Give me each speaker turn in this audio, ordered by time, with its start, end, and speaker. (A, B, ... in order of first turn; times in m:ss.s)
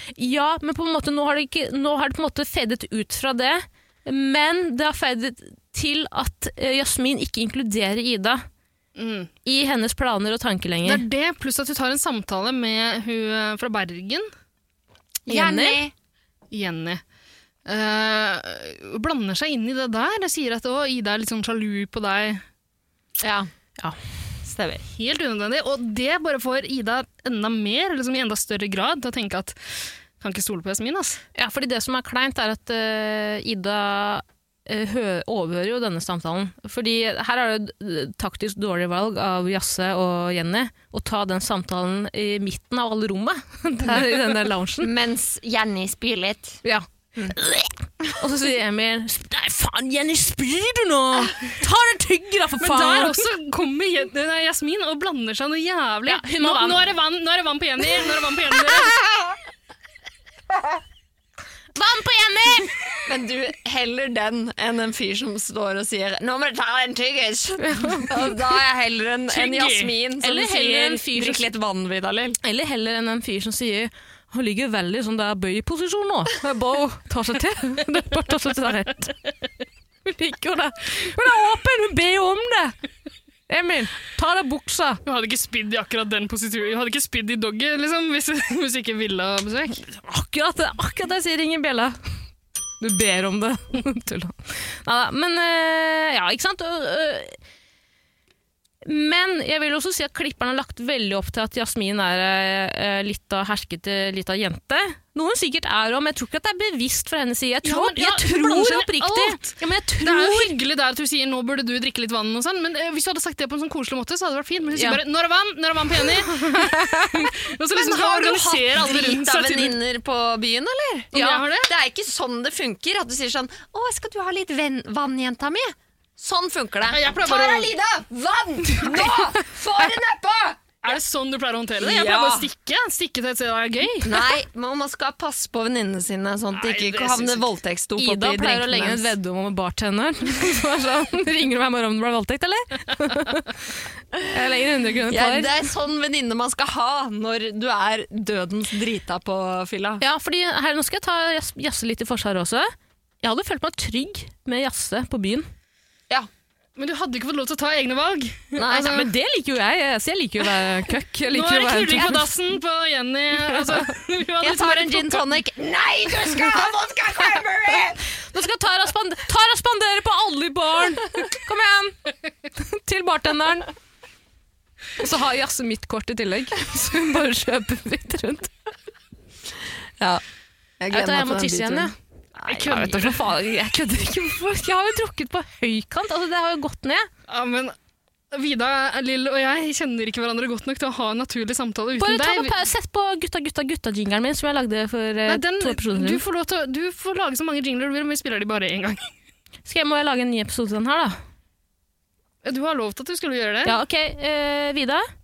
0:00.2-0:08.4 A
0:09.0-0:09.3 B
0:09.4-0:11.0 A
0:10.8-0:14.3 B
0:15.3-0:15.9 C
0:15.3-0:15.8 A
0:16.5-0:17.0 B
0:17.7-0:22.4 B
0:23.2-0:23.5 C
0:24.4-0:24.8 C
0:24.9-0:31.2 B
0:31.4-0:44.9 A
0:44.8-0:46.6 C
0:46.6-0:53.2 A
0:52.6-0:59.0 B
0:56.1-0:56.8 A
1:01.8-1:02.7 A
1:03.1-1:12.4 C
1:07.7-1:08.1 A
1:09.3-1:09.9 B
1:10.2-1:11.5 A
1:12.4-1:19.1 A
1:20.1-1:22.8 A
1:23.5-1:25.0 A
1:25.1-1:29.8 B
1:29.9-1:32.0 A
1:32.8-1:37.4 A
1:38.8-1:50.6 A
1:47.6-1:59.8 B
1:54.8-1:55.0 A
1:56.5-1:57.3 A
1:57.7-2:10.8 C
2:01.1-2:01.4 A
2:01.1-2:01.7 B
2:06.9-2:07.7 B
2:10.8-2:14.3 B
2:11.8-2:12.5 C
2:14.0-2:19.2 C
2:16.5-2:17.5 B
2:18.0-2:23.6 A
2:24.3-2:25.5 A
2:25.1-2:30.0 C
2:30.0-2:32.7 A
2:33.2-2:35.5 A
2:36.8-2:39.1 B
2:38.6-2:39.0 C
2:38.8-2:42.2 A
2:41.3-2:45.3 B
2:44.4-2:48.0 C
2:48.3-2:53.7 A
2:55.0-2:58.5 A
3:00.8-3:03.1 C
3:00.9-3:01.9 A
3:02.5-3:07.1 A
3:02.7-3:03.1 B
3:07.3-3:07.8 B
3:08.3-3:12.6 B
3:12.0-3:16.2 A
3:15.3-3:19.1 B
3:19.7-3:21.2 A
3:22.4-3:23.8 B
3:23.6-3:25.0 A